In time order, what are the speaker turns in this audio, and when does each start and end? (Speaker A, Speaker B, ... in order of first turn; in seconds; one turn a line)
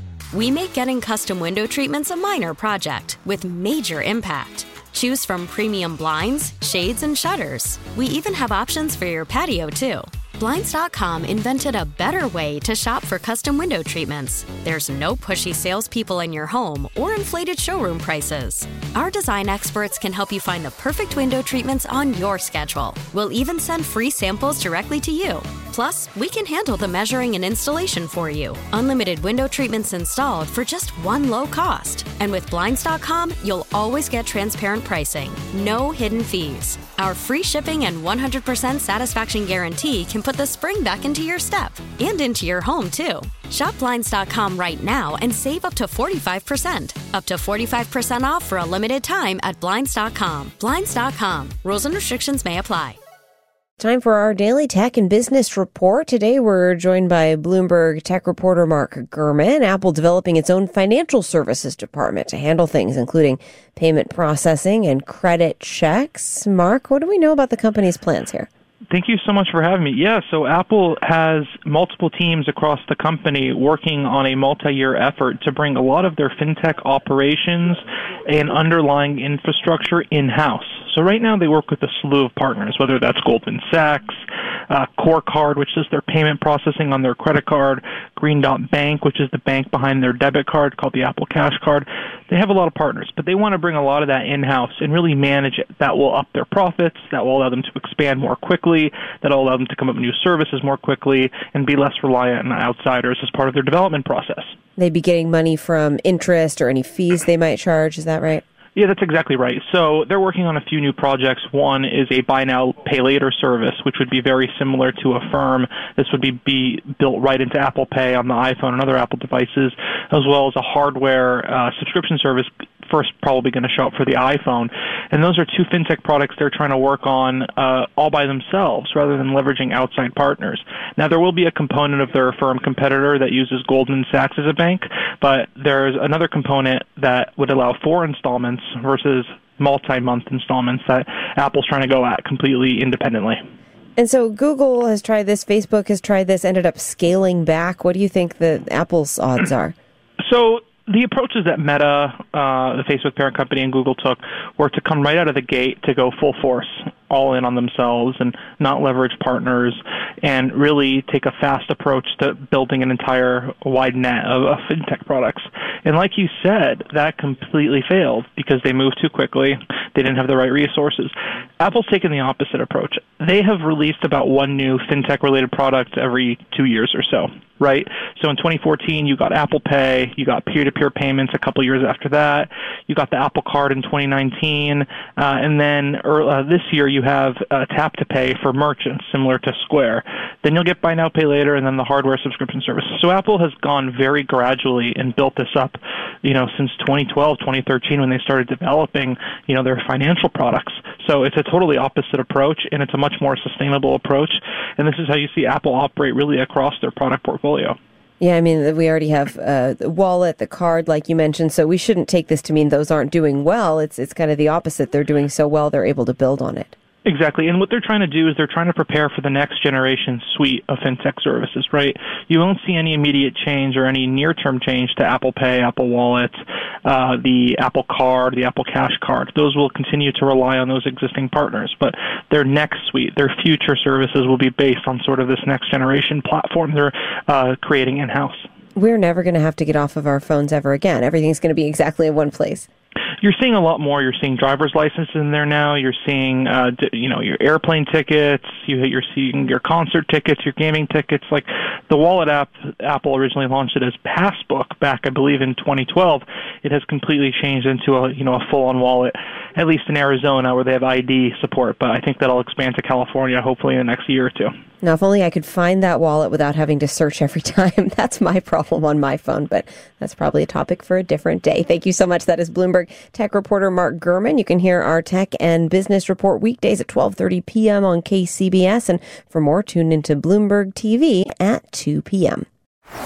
Speaker A: 0.3-53.0
Speaker B: 53.8-68.5
Speaker C: 68.9-104.5
Speaker B: 104.8-108.4
Speaker C: 108.8-143.4
Speaker B: 144.0-149.7
Speaker C: 150.2-207.8
Speaker B: 208.2-216.7
Speaker C: 217.0-238.5
Speaker B: 238.8-242.7
Speaker C: 243.2-264.5
Speaker B: 264.8-282.4